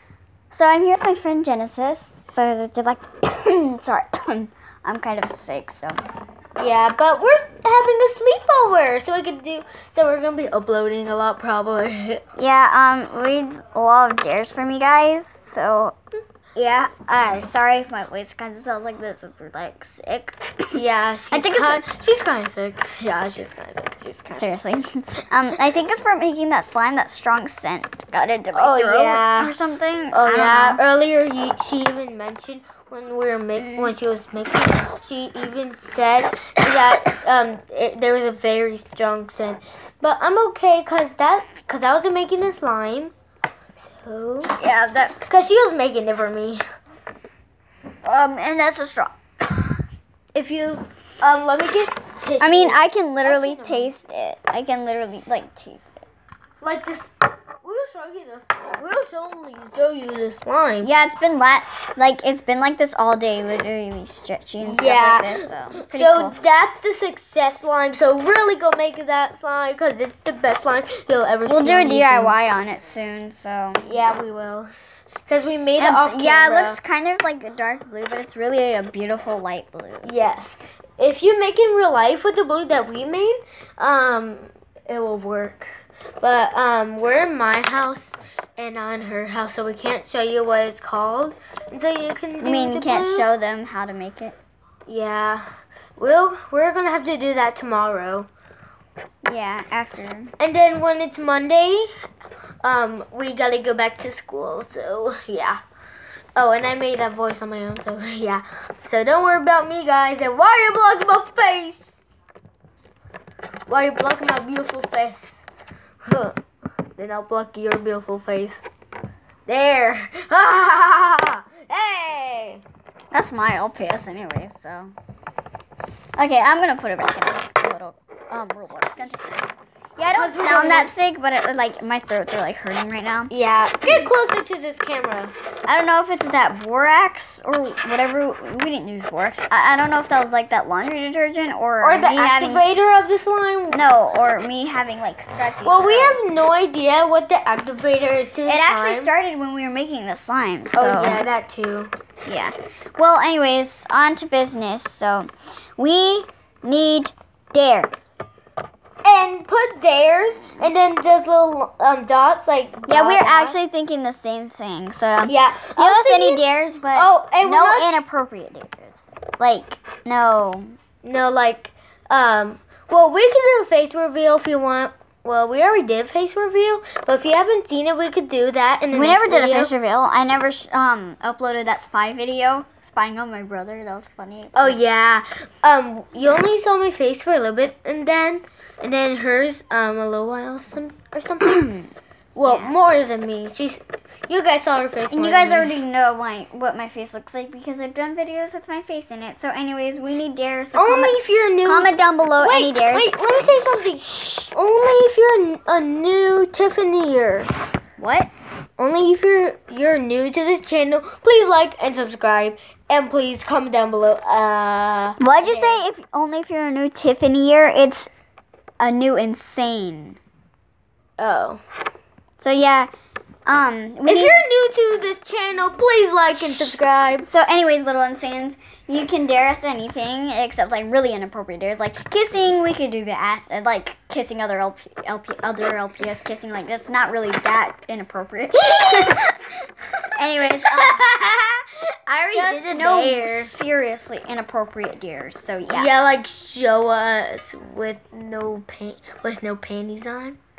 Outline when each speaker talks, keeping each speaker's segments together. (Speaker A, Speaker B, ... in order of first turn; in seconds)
Speaker A: 0.5-6.0, 12.4-16.0, 16.6-20.8, 21.3-21.8, 24.4-30.8, 33.6-33.9, 44.6-45.2, 48.0-49.8, 52.4-56.0, 60.8-66.4, 71.5-74.0, 75.8-80.1, 92.4-94.4, 99.3-100.3, 123.1-124.9, 126.2-133.3, 135.7-142.7, 143.7-146.2, 148.5-151.2, 152.2-158.2, 162.9-170.8, 178.9-184.8, 191.5-191.9, 192.5-192.8, 195.1-203.4, 208.0-208.3, 215.2-218.1, 218.8-220.2, 222.4-222.9, 223.5-224.4, 226.4-226.7, 227.3-239.3, 240.2-241.0, 242.3-245.9
Speaker B: 6.6-12.2, 20.7-24.5, 28.5-29.5, 30.1-43.1, 43.8-44.5, 45.3-46.6, 50.3-53.9, 56.6-60.9, 64.6-72.3, 73.8-74.7, 75.3-76.8, 80.0-93.3, 94.9-98.3, 100.4-101.9, 102.6-105.6, 106.4-112.0, 113.7-115.4, 116.0-116.4, 117.0-118.7, 119.5-122.6, 130.1-130.9, 133.3-135.3, 141.8-143.9, 145.6-149.1, 150.7-151.9, 159.0-163.6, 165.2-166.4, 166.9-168.0, 171.0-179.7, 184.6-191.7, 192.3-195.8, 200.8-207.5, 208.8-215.8, 221.2-221.6, 224.1-227.3, 238.7-239.1, 240.4-243.5, 245.7-250.4